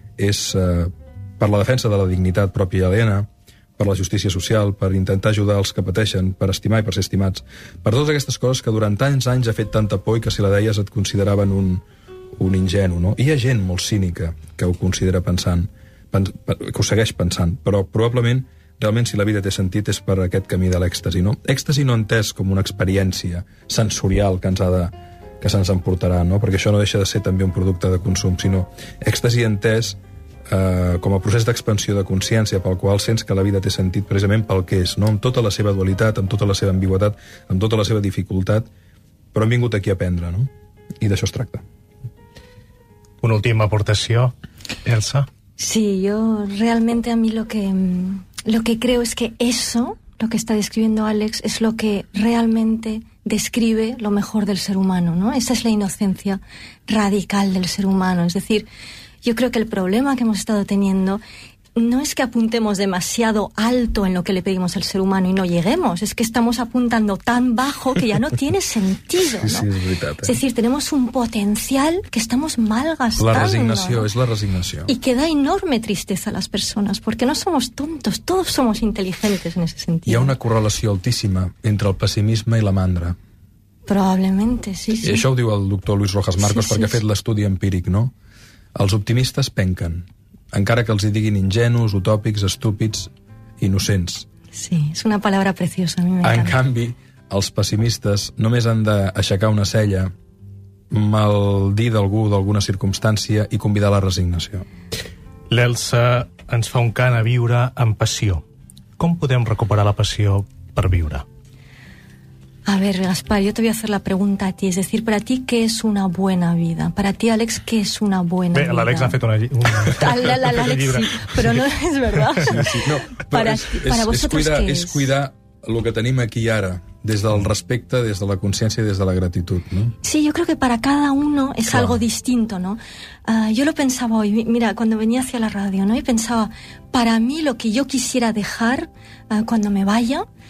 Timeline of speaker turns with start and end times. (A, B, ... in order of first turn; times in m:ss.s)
0:00.2-0:11.8 A
0:12.4-0:38.7 A
0:39.3-0:40.5 A
0:41.0-0:41.6 A
0:43.2-0:44.3 B
0:44.8-0:45.3 B
0:45.6-0:58.6 C
0:59.2-1:01.2 C
1:01.7-1:09.7 C
1:09.2-1:10.3 A
1:10.2-1:14.1 C
1:13.2-1:14.9 A
1:14.9-1:20.4 C
1:20.0-1:23.2 A
1:23.8-1:25.2 C
1:25.0-1:28.1 A
1:26.4-1:27.0 C
1:28.7-1:34.2 A
1:34.5-1:36.6 C
1:36.2-1:40.1 A
1:40.9-1:44.6 A
1:45.5-1:48.4 B
1:49.0-1:51.2 B
1:52.6-1:59.2 C
1:58.5-2:01.5 B
1:59.8-2:05.1 C
2:02.5-2:09.9 A
2:10.0-2:20.2 C
2:11.7-2:12.0 A